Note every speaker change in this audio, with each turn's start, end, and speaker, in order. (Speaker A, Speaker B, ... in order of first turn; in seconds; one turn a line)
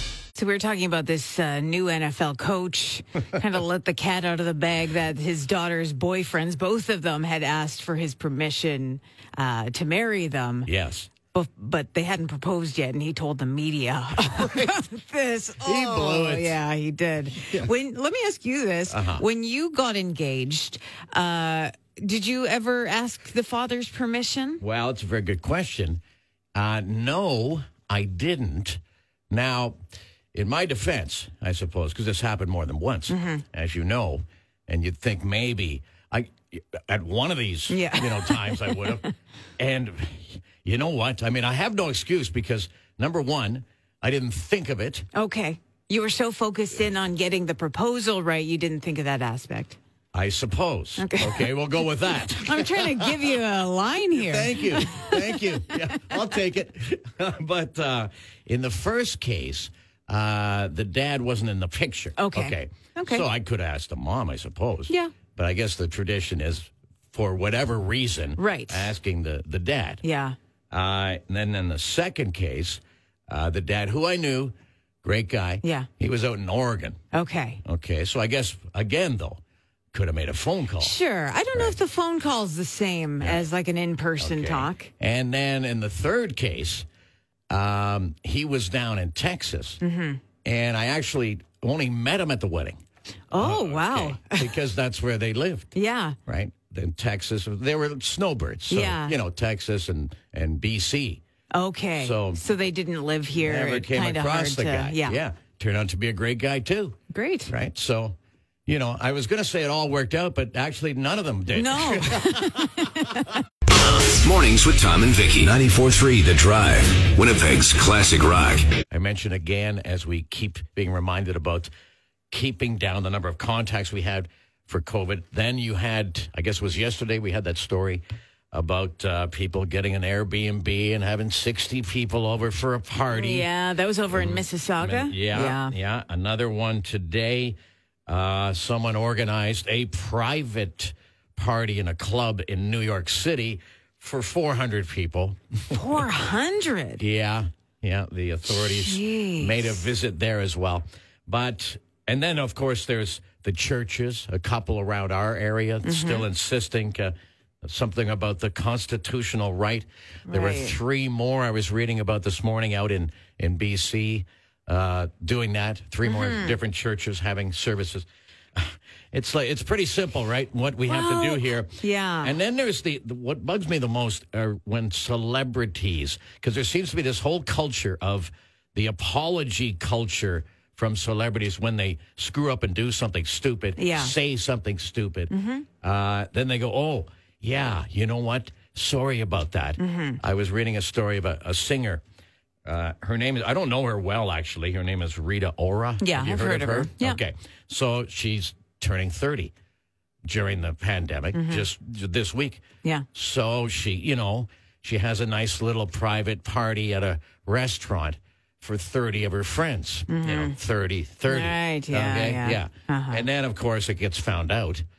Speaker A: 0.3-10.7
Speaker B: 10.7-11.1
Speaker A: 11.3-24.6
Speaker B: 14.3-14.8
Speaker B: 15.6-16.6
Speaker B: 18.9-19.2
Speaker B: 24.6-26.0
Speaker B: 26.6-29.8
Speaker B: 30.3-45.1
Speaker A: 33.1-33.4
Speaker A: 37.7-39.0
Speaker A: 45.1-49.8
Speaker B: 50.1-53.4
Speaker A: 51.0-56.1
Speaker B: 54.2-70.0
Speaker A: 62.2-63.3
Speaker A: 64.9-65.1
Speaker A: 68.4-68.9
Speaker A: 70.0-70.4
Speaker B: 70.7-77.0
Speaker A: 75.6-75.9
Speaker A: 77.1-77.6
Speaker B: 77.6-79.4
Speaker B: 79.9-81.0
Speaker A: 80.8-84.9
Speaker B: 83.2-83.5
Speaker B: 84.2-86.9
Speaker B: 87.5-89.8
Speaker A: 89.8-90.2
Speaker B: 90.4-92.8
Speaker A: 93.3-94.5
Speaker B: 93.3-95.7
Speaker A: 95.8-96.2
Speaker B: 96.3-101.2
Speaker A: 98.7-99.2
Speaker A: 101.5-105.2
Speaker B: 102.0-102.4
Speaker B: 103.4-113.2
Speaker A: 107.1-107.5
Speaker A: 111.5-113.4
Speaker C: 114.1-118.7
Speaker B: 118.9-121.7
Speaker B: 122.3-133.5
Speaker A: 133.1-135.8
Speaker B: 134.1-145.8
Speaker A: 145.7-147.0
Speaker B: 147.0-192.0
Speaker A: 148.5-149.9
Speaker A: 155.8-156.3
Speaker A: 160.3-160.8
Speaker A: 166.0-166.6
Speaker A: 170.9-172.4
Speaker A: 183.8-184.1
Speaker A: 185.3-185.7
Speaker A: 189.8-190.2
Speaker B: 192.7-199.5
Speaker A: 196.0-197.2
Speaker B: 200.3-214.8
Speaker A: 201.3-201.7
Speaker A: 210.1-210.6
Speaker A: 211.3-213.2